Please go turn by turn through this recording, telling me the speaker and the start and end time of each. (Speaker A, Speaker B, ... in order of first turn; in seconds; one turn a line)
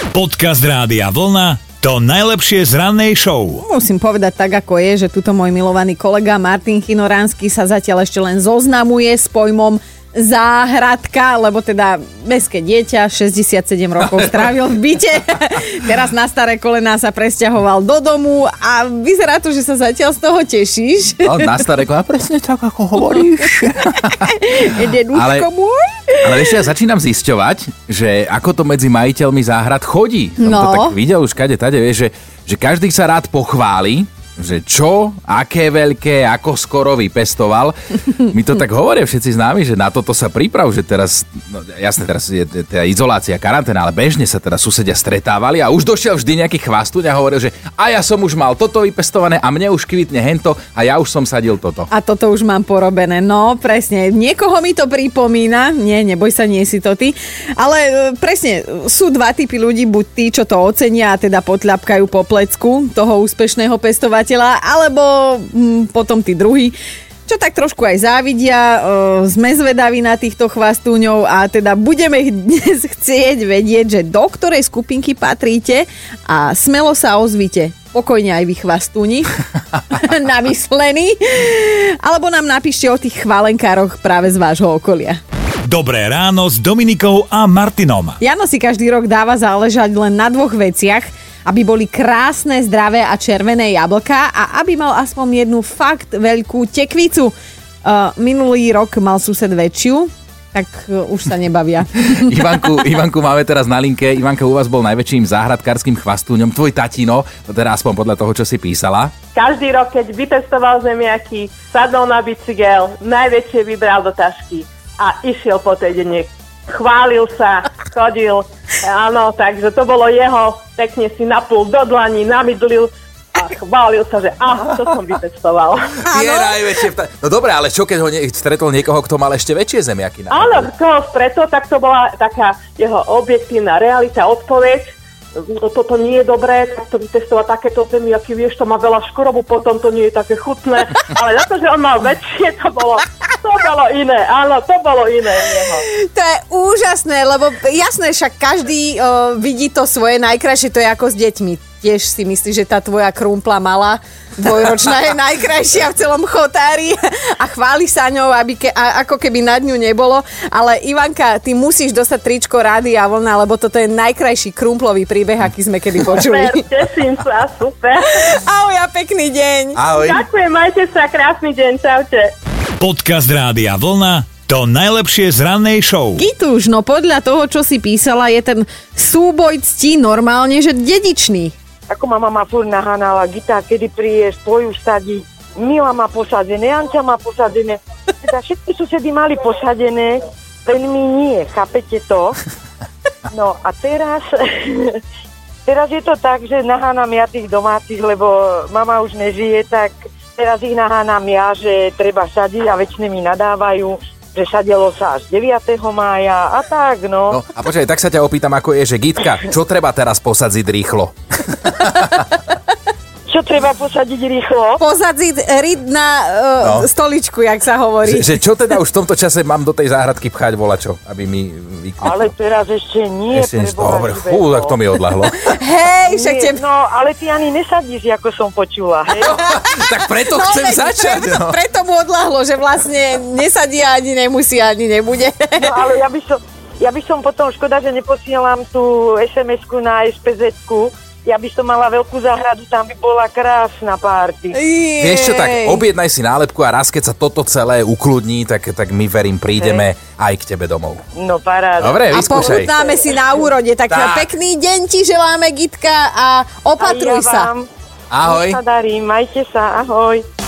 Speaker A: 0.1-3.6
Speaker B: 3.6-21.4
Speaker C: 21.2-24.3
Speaker B: 23.6-26.6
Speaker C: 25.1-25.5
Speaker C: 26.2-51.9
Speaker B: 30.4-31.0
Speaker B: 51.9-66.8
Speaker B: 67.3-79.3
Speaker B: 79.9-85.2
Speaker A: 85.7-88.2
Speaker B: 88.2-97.3
Speaker B: 97.8-102.6
Speaker C: 102.1-109.1
Speaker D: 109.4-125.9
Speaker B: 126.0-126.6
Speaker C: 126.1-130.7
Speaker D: 130.3-134.9
Speaker D: 135.6-145.8
Speaker B: 145.9-166.6
Speaker D: 166.2-168.0
Speaker B: 168.2-169.8
Speaker C: 169.8-170.2
Speaker D: 169.9-172.2
Speaker A: 172.8-176.3
Speaker B: 176.2-181.5
Speaker E: 181.9-192.4
Speaker E: 193.3-195.0
Speaker E: 195.7-207.4
Speaker C: 207.3-212.4
Speaker E: 213.3-214.8
Speaker B: 214.8-218.4
Speaker C: 216.6-216.9
Speaker C: 218.0-222.3
Speaker E: 222.0-224.8
Speaker C: 223.3-225.5
Speaker B: 225.4-226.6
Speaker E: 226.0-229.4
Speaker C: 229.2-231.6
Speaker B: 229.4-235.8
Speaker E: 235.6-244.6
Speaker B: 244.5-245.8
Speaker C: 245.0-251.0
Speaker E: 249.6-249.8
Speaker E: 251.2-253.0
Speaker C: 251.8-252.7
Speaker B: 252.1-257.5
Speaker C: 253.9-254.3
Speaker E: 256.8-257.7
Speaker C: 258.1-258.6
Speaker E: 258.2-260.2